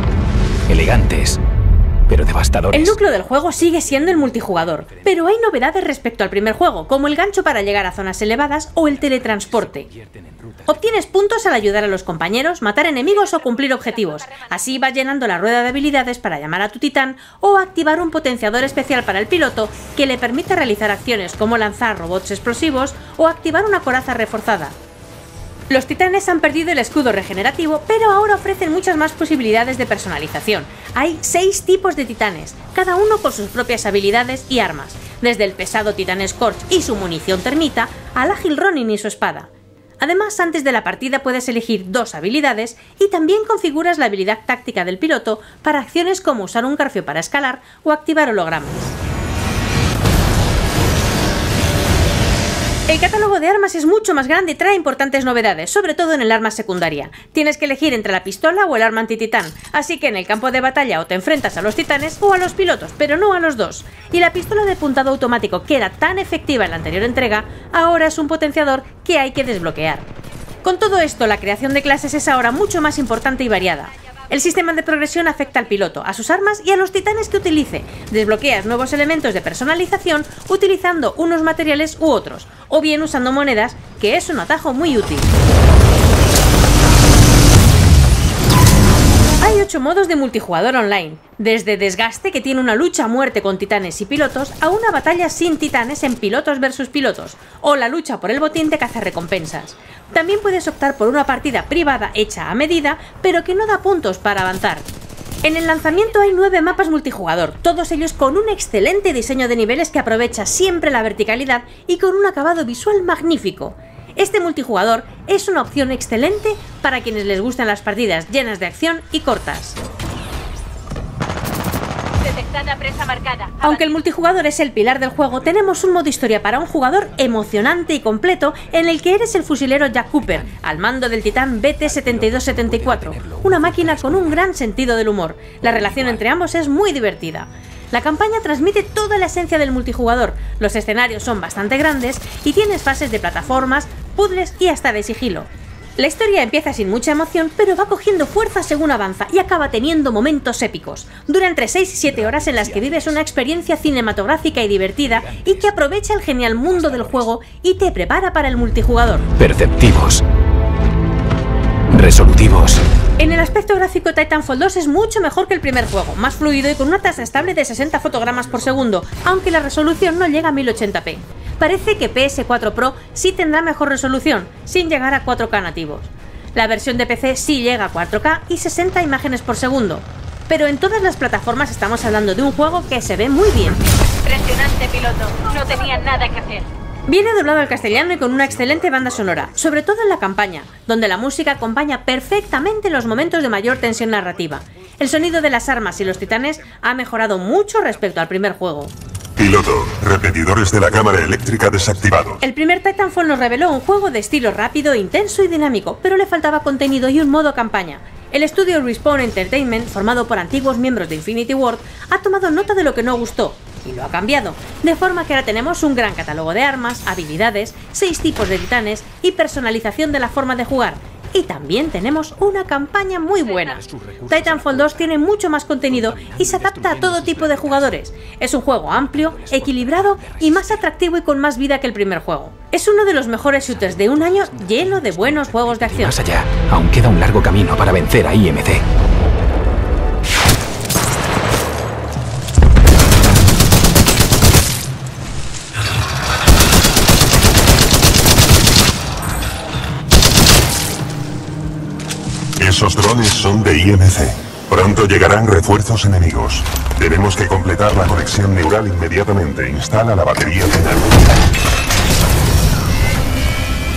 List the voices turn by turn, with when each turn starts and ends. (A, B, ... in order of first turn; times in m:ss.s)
0:00.7-0:01.4 A
0:02.1-0:05.1 A
0:02.7-0:09.9 B
0:08.9-0:10.7 A
0:10.6-0:24.8 B
0:25.7-0:48.9 B
0:52.9-1:10.1 B
1:10.6-1:25.3 B
1:29.4-1:44.9 B
1:45.4-1:59.8 B
2:02.2-2:03.8 C
2:03.6-2:39.3 B
2:10.3-2:10.6 A
2:11.8-2:14.4 A
2:15.6-2:16.2 A
2:32.1-2:33.2 A
2:35.0-2:37.3 A
2:39.4-2:40.2 A
2:41.9-2:42.8 A
2:43.2-3:03.9 B
3:04.1-3:06.7 C
3:07.1-3:18.9 B
3:07.8-3:09.3 D
3:19.4-3:22.4 D
3:22.4-3:56.2 B
3:43.5-3:45.2 A
3:45.9-3:48.0 A
3:48.9-3:50.8 A
3:53.4-3:58.8 A
4:12.6-4:21.1 D